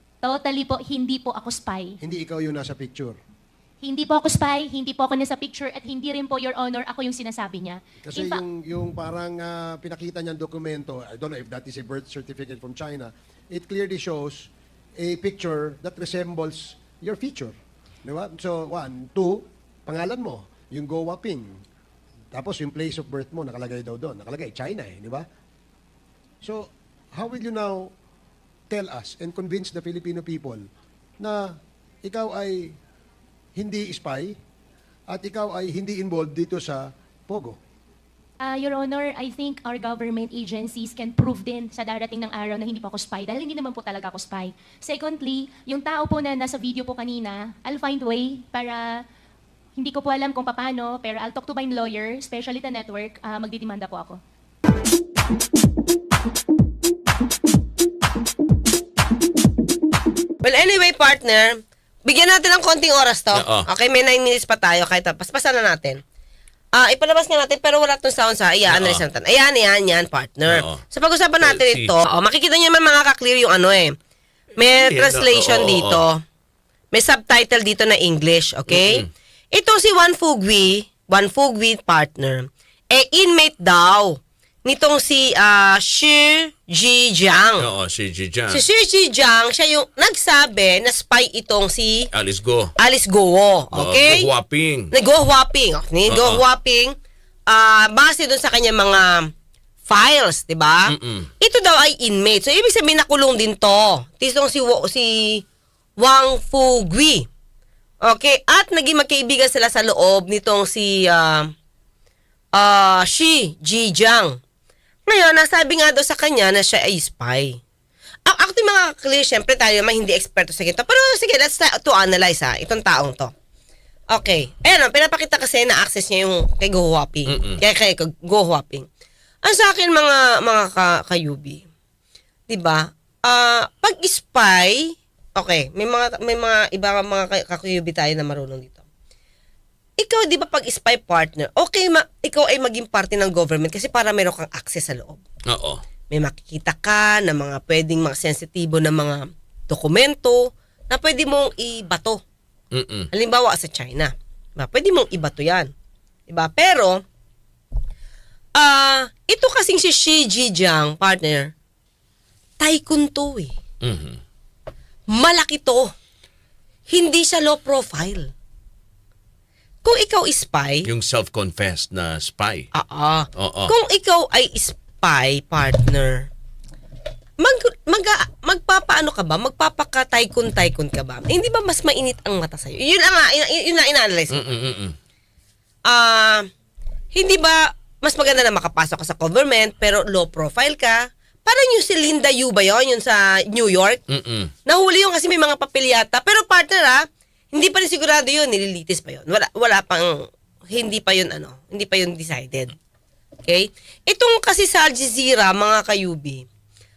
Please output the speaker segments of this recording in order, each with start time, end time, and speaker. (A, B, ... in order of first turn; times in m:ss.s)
0:00.2-0:02.0 A
0:02.0-0:03.2 B
0:03.8-0:08.4 A
0:08.0-0:17.5 B
0:18.0-0:21.5 B
0:22.3-0:25.3 B
0:26.4-0:27.9 B
0:28.7-0:30.6 B
0:31.2-0:32.8 B
0:33.6-0:34.4 B
0:35.1-0:37.6 B
0:38.4-0:48.9 A
0:49.8-0:54.2 A
1:00.4-1:06.0 C
1:03.3-1:03.7 D
1:06.7-1:13.9 C
1:08.7-1:09.0 D
1:10.5-1:10.8 D
1:11.4-1:12.0 D
1:14.6-1:16.2 C
1:14.6-1:16.0 D
1:16.9-1:27.7 C
1:18.7-1:19.1 D
1:27.6-1:28.6 D
1:28.5-1:32.1 C
1:32.1-1:32.7 D
1:32.8-1:34.3 C
1:33.7-1:34.9 D
1:34.9-1:36.9 C
1:36.1-1:36.4 D
1:37.5-1:39.3 C
1:39.9-1:40.9 C
1:40.9-1:41.3 D
1:41.4-1:45.4 C
1:46.0-1:47.3 C
1:48.0-1:51.5 C
1:52.6-1:54.4 C
1:55.1-1:57.6 C
1:58.3-2:03.3 C
2:04.1-2:08.9 C
2:07.3-2:07.6 D
2:09.4-2:11.6 C
2:12.5-2:18.8 C
2:20.0-2:25.2 C
2:25.5-2:25.8 D
2:26.1-2:32.2 C
2:32.7-2:33.1 D
2:33.1-2:35.7 C
2:36.3-2:37.0 C
2:38.6-2:41.5 C
2:42.6-2:43.5 C
2:43.8-2:44.2 D
2:45.1-2:45.9 C
2:46.9-2:48.3 C
2:49.8-2:50.9 C
2:50.8-2:52.7 D
2:52.7-2:56.3 C
2:53.4-2:53.7 D
2:57.4-3:04.4 C
3:04.3-3:05.0 D
3:05.9-3:06.5 C
3:07.1-3:14.0 C
3:14.1-3:14.5 D
3:14.7-3:20.2 C
3:20.7-3:22.7 C
3:23.5-3:26.4 C